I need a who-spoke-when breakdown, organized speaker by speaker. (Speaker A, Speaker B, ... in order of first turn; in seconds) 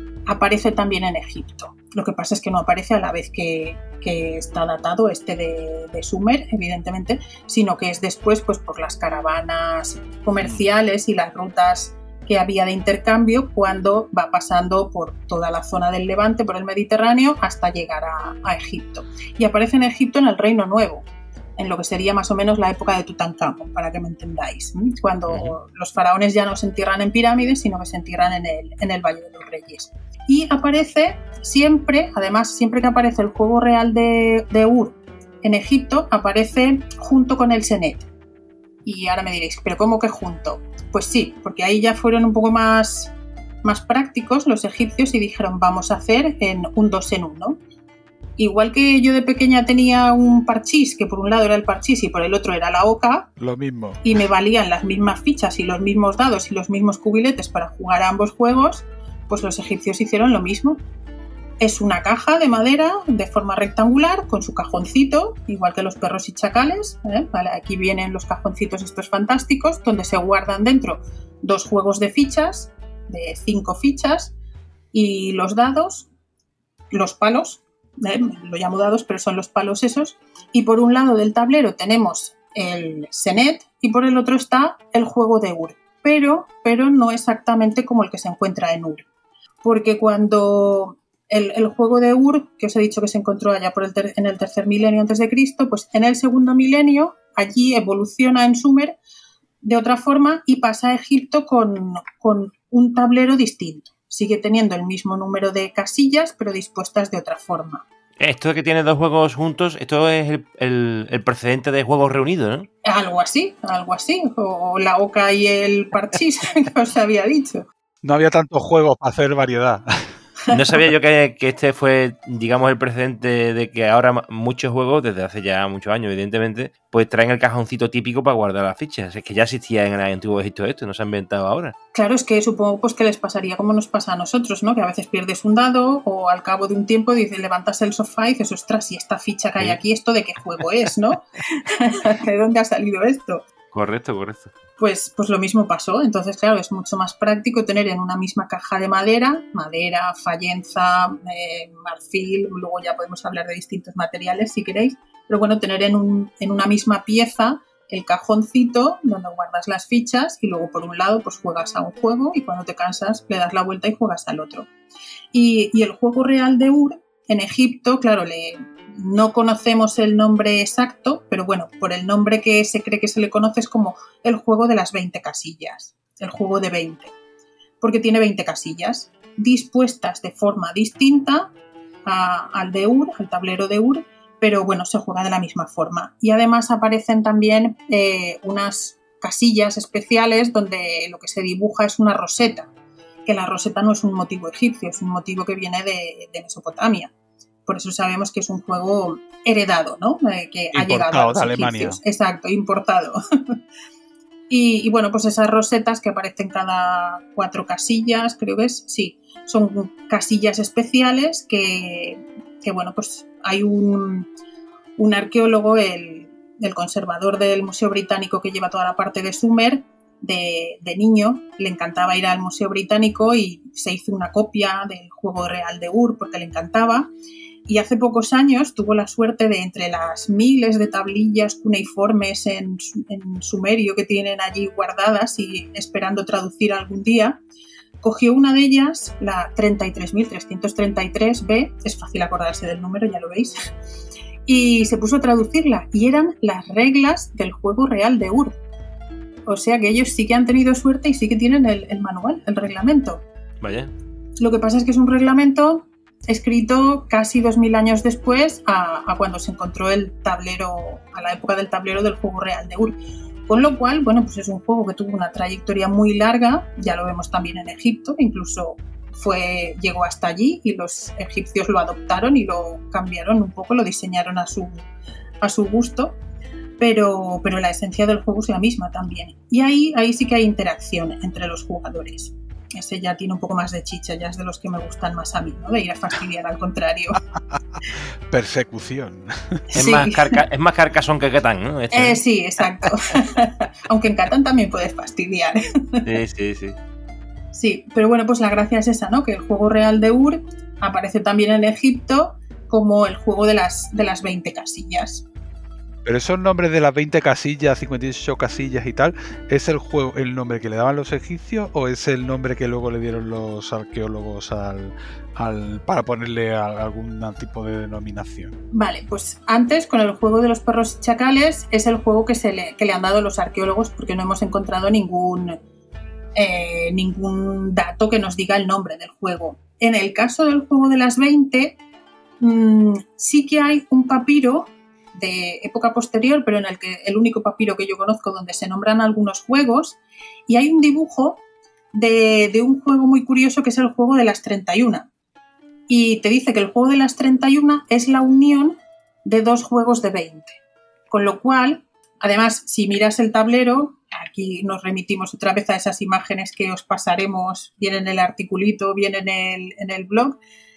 Speaker A: 0.3-38.1, 38.8-43.1, 43.6-47.6, 48.4-53.3, 54.0-60.8, 61.6-74.3, 74.9-76.1, 76.9-89.0, 89.6-99.0, 99.6-107.8, 112.8-117.7, 131.9-143.4, 144.8-164.7, 165.3-177.1, 177.8-181.5, 182.1-192.7, 193.2-197.1, 197.7-203.6, 204.5-214.3, 215.0-227.1, 227.7-237.4, 238.0-243.6, 244.5-248.6, 249.5-253.2, 254.4-274.9, 275.4-276.2, 276.8-287.2, 289.7-290.4, 291.9-296.1, 297.5-305.2, 318.7-325.6, 326.3-331.8, 332.4-341.4, 341.9-345.1, 345.9-350.6, 351.1-360.4
Speaker B: 25.3-25.6, 108.2-112.7, 120.5-131.7, 143.7-144.5, 253.6-253.9, 289.7-292.2, 296.0-296.8
Speaker C: 53.4-54.2, 118.0-120.2, 200.7-202.0, 288.3-289.8, 306.0-318.5